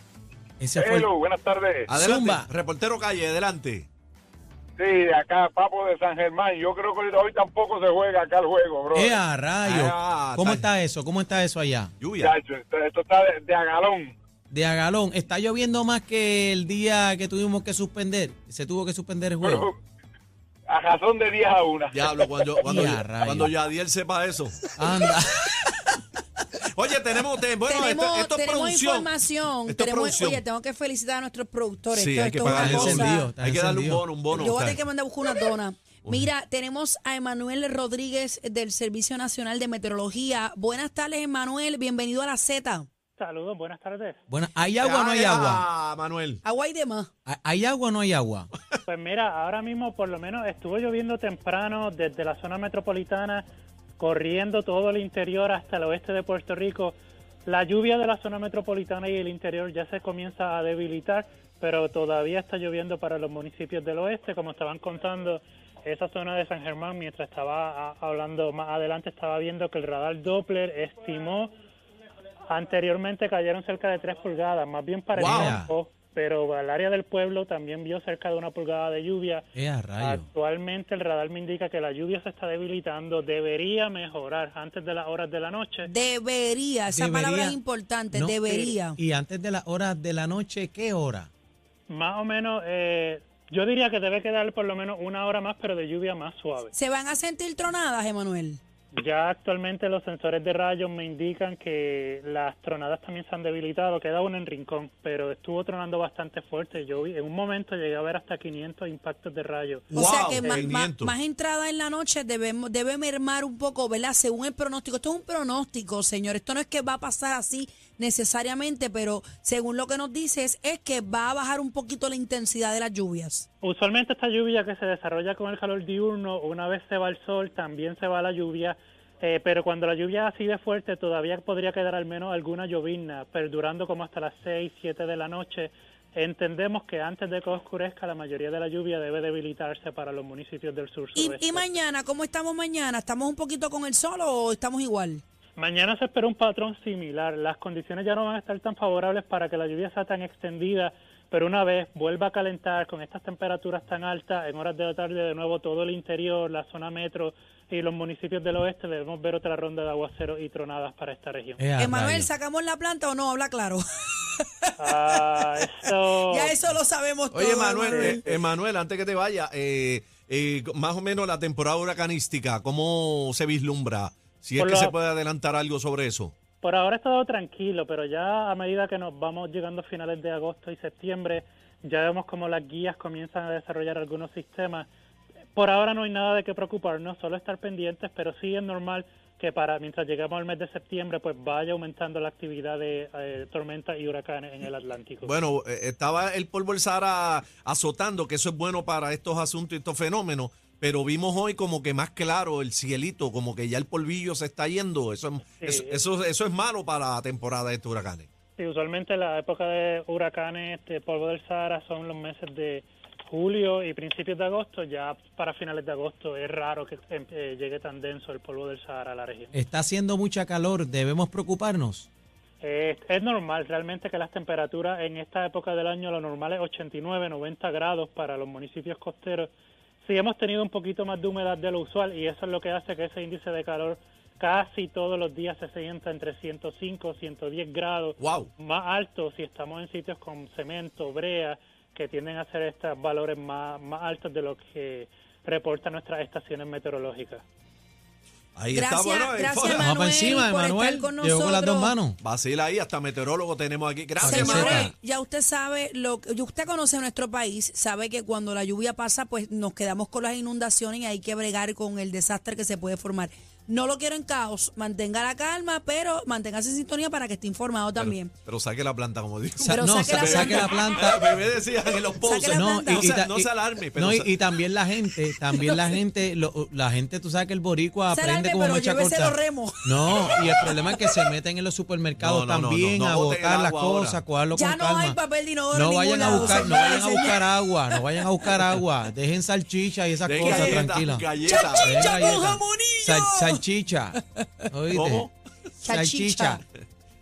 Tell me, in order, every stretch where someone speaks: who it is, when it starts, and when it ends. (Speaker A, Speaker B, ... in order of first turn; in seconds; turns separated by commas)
Speaker A: 0.6-1.1, Speaker B: 0.8-1.9, Speaker C: 1.9-3.9, Speaker A: 1.9-2.5, Speaker B: 4.8-9.2, Speaker A: 8.9-11.9, Speaker C: 9.6-10.6, Speaker C: 12.0-12.3, Speaker B: 12.2-14.1, Speaker A: 14.5-19.7, Speaker B: 19.4-19.7, Speaker B: 20.7-22.2, Speaker C: 21.9-24.7, Speaker A: 22.6-23.5, Speaker A: 24.8-25.8, Speaker C: 26.7-29.1, Speaker D: 27.6-33.3, Speaker C: 29.7-30.4, Speaker C: 31.9-34.8, Speaker A: 32.4-34.1, Speaker D: 34.3-42.9, Speaker E: 43.2-44.2, Speaker A: 44.3-45.7, Speaker C: 44.8-46.4, Speaker D: 46.4-47.1, Speaker A: 47.3-48.5, Speaker E: 48.9-53.4, Speaker E: 54.0-71.5, Speaker E: 72.5-79.4, Speaker C: 75.2-75.6, Speaker A: 75.2-75.7, Speaker A: 79.5-80.3, Speaker E: 80.0-85.9, Speaker D: 85.9-89.0, Speaker A: 86.9-87.6, Speaker A: 88.1-91.3, Speaker E: 91.9-96.7, Speaker D: 96.7-98.6, Speaker E: 99.0-109.9, Speaker C: 109.9-111.1, Speaker D: 109.9-123.5, Speaker E: 123.6-141.8, Speaker D: 141.2-145.2, Speaker E: 145.6-161.6, Speaker A: 161.6-162.3, Speaker D: 161.8-164.7, Speaker E: 164.8-166.6, Speaker D: 166.3-168.4, Speaker C: 167.3-176.3, Speaker E: 167.9-168.2, Speaker E: 174.6-175.0, Speaker E: 176.6-184.9, Speaker E: 185.6-195.4, Speaker C: 195.2-208.3, Speaker E: 205.6-206.0, Speaker E: 208.6-219.5, Speaker A: 219.5-222.1, Speaker E: 222.6-229.5, Speaker E: 230.0-247.4, Speaker C: 238.2-238.5, Speaker C: 248.6-249.9, Speaker D: 248.7-251.9, Speaker A: 249.7-252.2, Speaker C: 252.2-254.9, Speaker A: 254.2-254.9, Speaker D: 254.2-268.3, Speaker C: 268.0-274.4, Speaker A: 269.6-271.3, Speaker D: 269.7-270.8, Speaker D: 272.2-273.1, Speaker A: 272.5-285.2, Speaker D: 278.1-280.1, Speaker C: 282.2-284.2, Speaker D: 284.6-288.5, Speaker A: 285.7-294.2, Speaker C: 286.2-286.9, Speaker C: 290.2-292.0, Speaker D: 290.4-290.9, Speaker D: 291.4-293.6, Speaker A: 294.7-295.3, Speaker C: 294.9-295.3, Speaker D: 295.8-296.6, Speaker A: 295.9-296.6